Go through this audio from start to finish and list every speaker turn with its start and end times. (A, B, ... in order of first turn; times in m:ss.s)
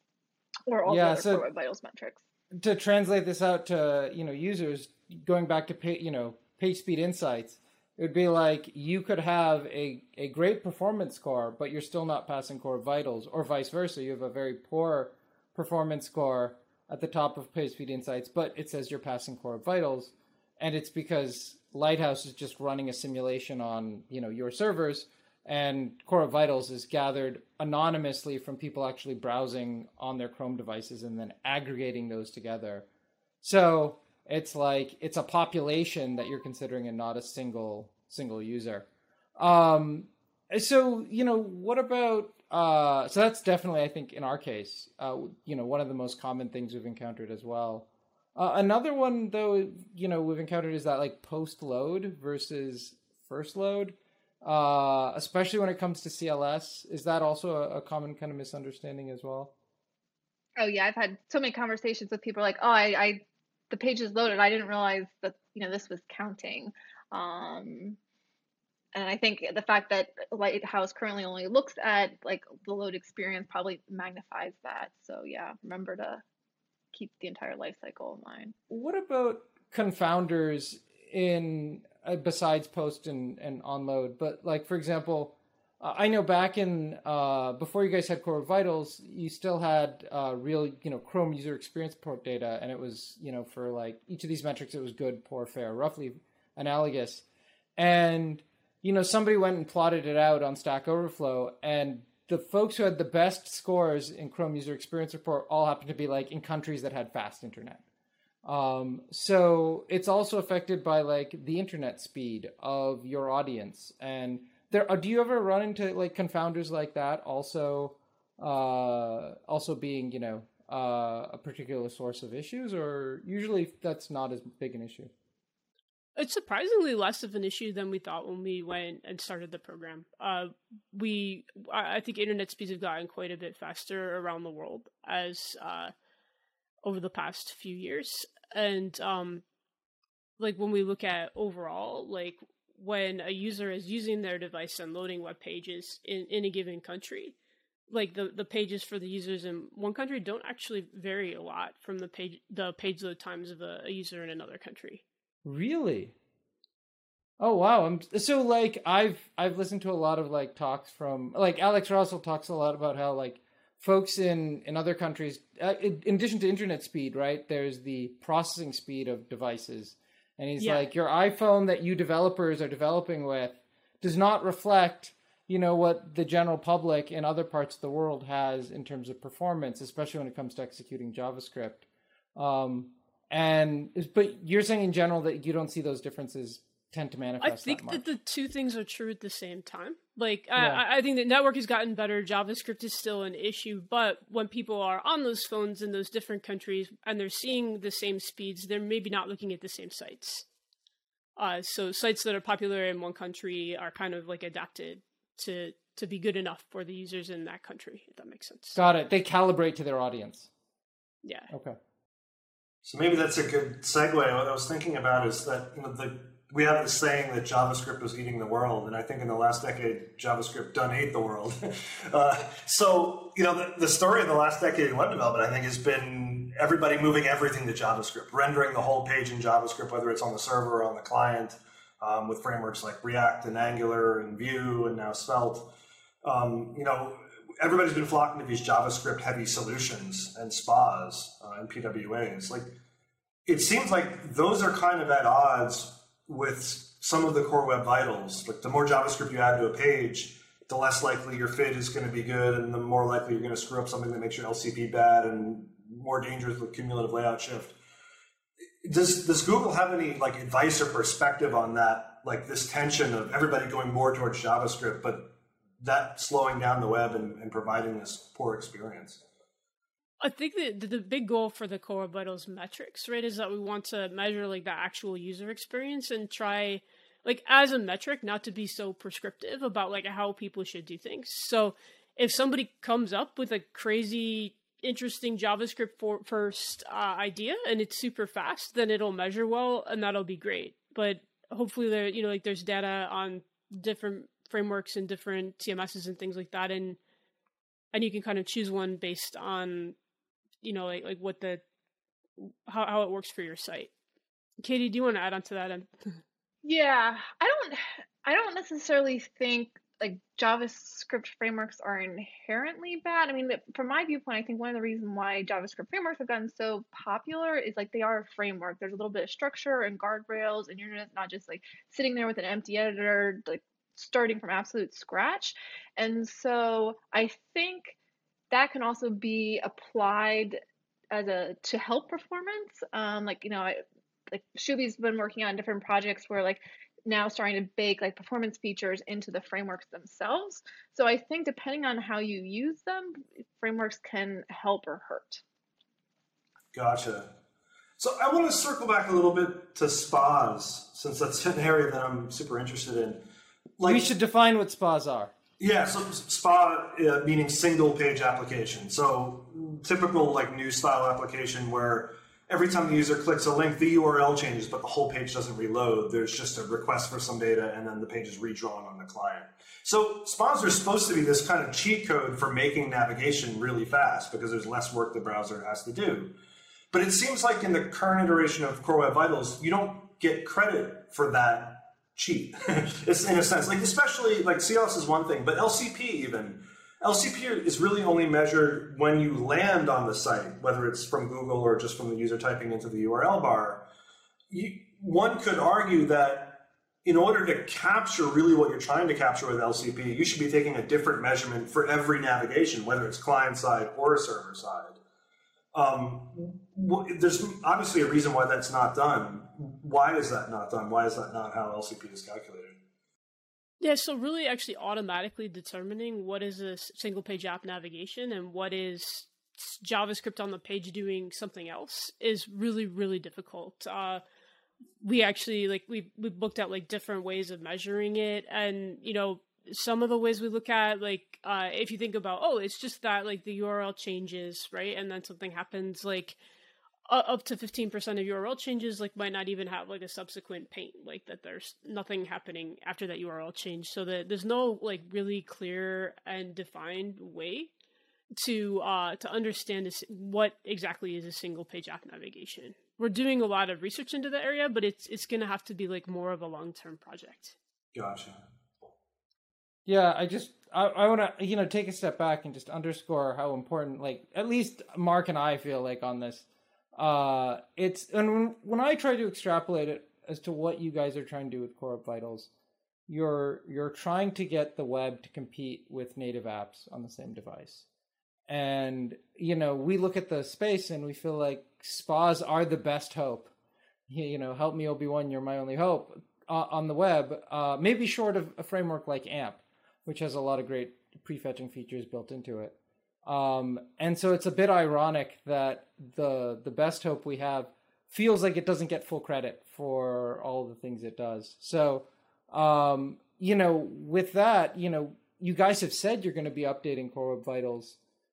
0:00.7-0:02.2 A
0:00.8-0:01.4 B
0:02.5-0:32.8 B
0:33.4-0:38.8 B
0:39.4-0:59.5 B
1:00.6-1:08.0 A
1:08.9-1:16.2 A
1:16.9-1:18.5 A
1:18.7-1:37.2 B
1:37.8-1:47.8 B
1:48.4-2:05.1 B
2:06.2-2:15.9 C
2:16.8-2:19.4 C
2:20.4-2:27.3 C
2:27.9-2:35.0 C
2:35.4-2:36.1 B
2:37.4-3:08.0 B
2:50.6-2:50.9 C
3:07.4-3:20.4 C
3:10.6-3:10.8 B
3:21.4-3:28.8 C
3:28.7-3:30.5 B
3:31.2-3:31.5 C
3:31.5-3:31.8 B
3:32.8-3:55.7 D
3:56.2-4:02.7 D
4:03.4-4:17.8 D
4:18.8-4:29.2 D
4:30.2-4:57.0 C
4:57.9-5:00.0 C
5:00.6-5:01.6 C
5:02.4-5:03.9 C
5:04.6-5:05.9 C
5:06.6-5:28.0 A
5:28.5-5:30.6 A
5:31.1-5:45.4 A
5:46.7-5:47.3 D
5:48.0-5:53.2 D
5:53.8-5:54.1 D
5:53.8-5:55.3 B
5:55.6-6:16.3 D
6:16.9-6:33.9 D
6:34.5-6:45.0 D
6:45.7-6:52.8 D
6:53.8-7:04.2 C
7:05.0-7:16.4 C
7:17.1-7:27.7 C
7:28.4-7:37.5 C
7:37.9-7:38.4 D
7:39.8-7:52.5 B
7:53.1-7:57.8 B
7:58.5-8:03.5 B
8:04.1-8:28.0 B